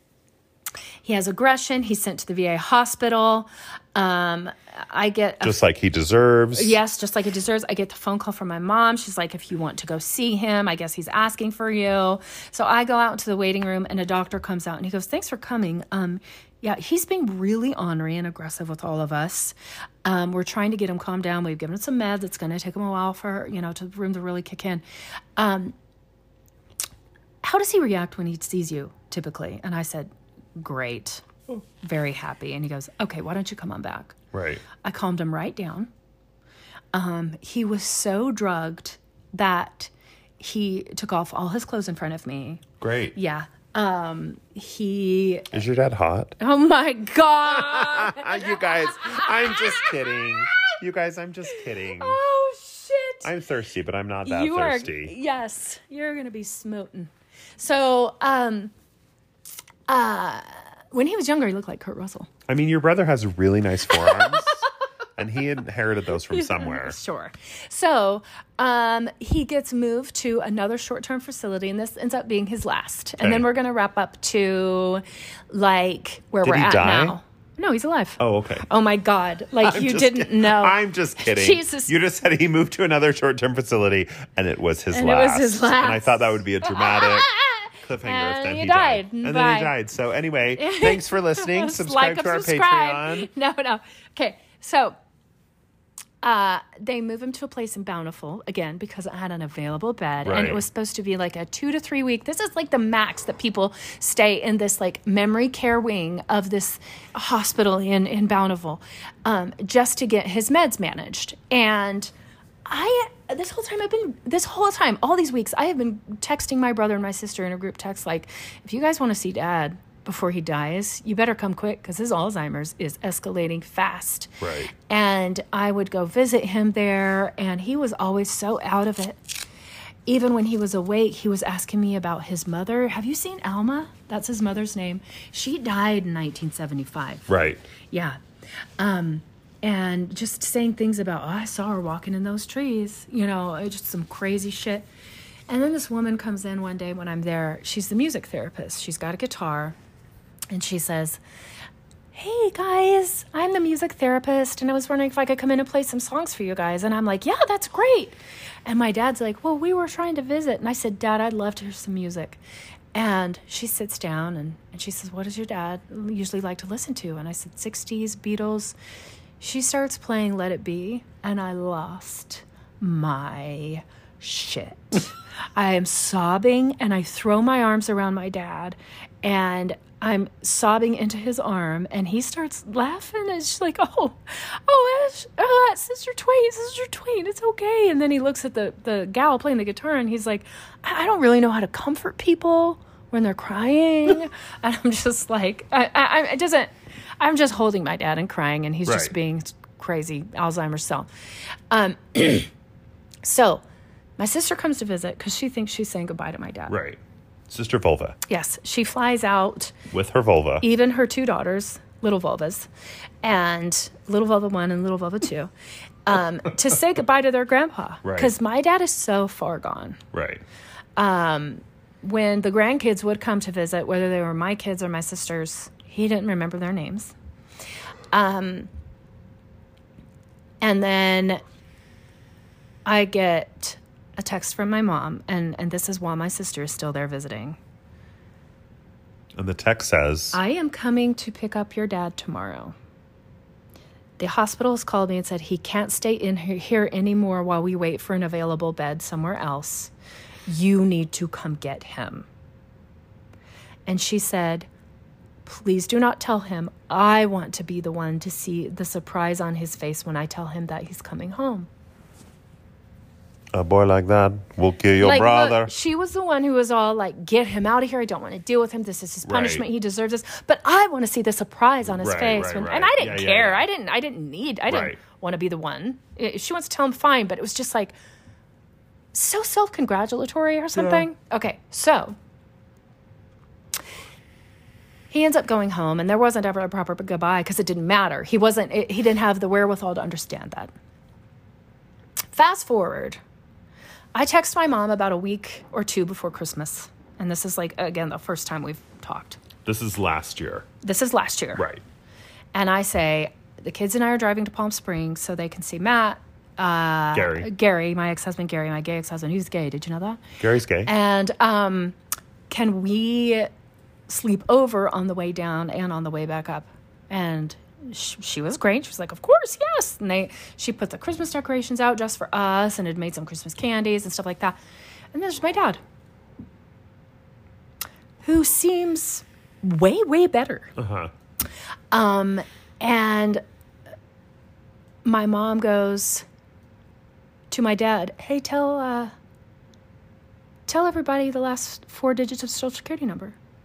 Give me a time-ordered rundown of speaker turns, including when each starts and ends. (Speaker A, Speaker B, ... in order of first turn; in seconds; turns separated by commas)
Speaker A: 1.0-5.6, Speaker B: 5.4-6.8, Speaker A: 6.5-24.8, Speaker A: 25.4-25.8, Speaker A: 27.4-34.2, Speaker B: 34.3-34.6, Speaker A: 34.8-35.9, Speaker A: 36.9-45.5, Speaker B: 42.8-43.2, Speaker B: 45.5-46.4, Speaker A: 46.4-50.4, Speaker B: 47.5-52.2, Speaker A: 51.5-53.3, Speaker B: 53.2-55.1, Speaker A: 54.2-58.7, Speaker A: 59.9-62.3, Speaker B: 62.5-64.7, Speaker A: 63.9-64.6, Speaker B: 65.2-67.0, Speaker A: 66.3-81.9, Speaker B: 73.2-73.5, Speaker B: 76.4-77.2, Speaker B: 78.2-78.7, Speaker B: 79.6-93.3, Speaker A: 84.9-89.8, Speaker A: 90.6-95.0, Speaker A: 96.2-112.1, Speaker B: 100.2-100.6, Speaker A: 112.7-129.2, Speaker B: 124.4-124.7, Speaker A: 130.1-137.3, Speaker B: 137.3-137.6, Speaker A: 137.9-138.2, Speaker A: 138.8-144.9, Speaker A: 145.5-149.8, Speaker A: 150.5-151.2, Speaker A: 152.1-162.4, Speaker A: 162.9-168.8, Speaker A: 169.4-201.1, Speaker B: 198.9-199.2, Speaker A: 201.7-202.5, Speaker A: 203.2-203.6, Speaker A: 204.2-206.8, Speaker B: 206.7-208.2, Speaker A: 208.3-209.8, Speaker B: 209.9-210.7, Speaker A: 210.6-212.7, Speaker A: 213.2-215.5, Speaker A: 216.1-220.0, Speaker B: 218.0-218.3, Speaker B: 220.1-220.4, Speaker A: 221.0-227.1, Speaker A: 228.1-228.7, Speaker A: 230.6-231.4, Speaker A: 232.8-237.6, Speaker B: 239.4-240.4, Speaker A: 240.3-242.8, Speaker A: 244.2-249.9, Speaker A: 250.5-252.3, Speaker A: 253.9-254.7, Speaker A: 255.4-261.7, Speaker B: 263.5-265.7, Speaker A: 265.0-277.9, Speaker B: 269.2-269.6, Speaker B: 272.0-273.7, Speaker B: 274.7-275.0, Speaker A: 279.1-282.1, Speaker B: 280.8-281.1, Speaker A: 285.1-290.7, Speaker A: 292.3-293.2, Speaker A: 294.1-299.4, Speaker B: 299.6-300.7, Speaker A: 300.8-301.6, Speaker B: 301.6-301.8, Speaker A: 302.5-310.2, Speaker B: 307.1-307.5, Speaker B: 310.4-310.9, Speaker A: 310.9-312.0, Speaker A: 312.5-313.5, Speaker A: 314.1-324.6, Speaker A: 325.1-325.8, Speaker A: 328.2-330.7, Speaker B: 330.8-331.1, Speaker A: 331.9-333.4, Speaker A: 335.1-336.2, Speaker A: 337.5-339.1, Speaker A: 340.7-343.4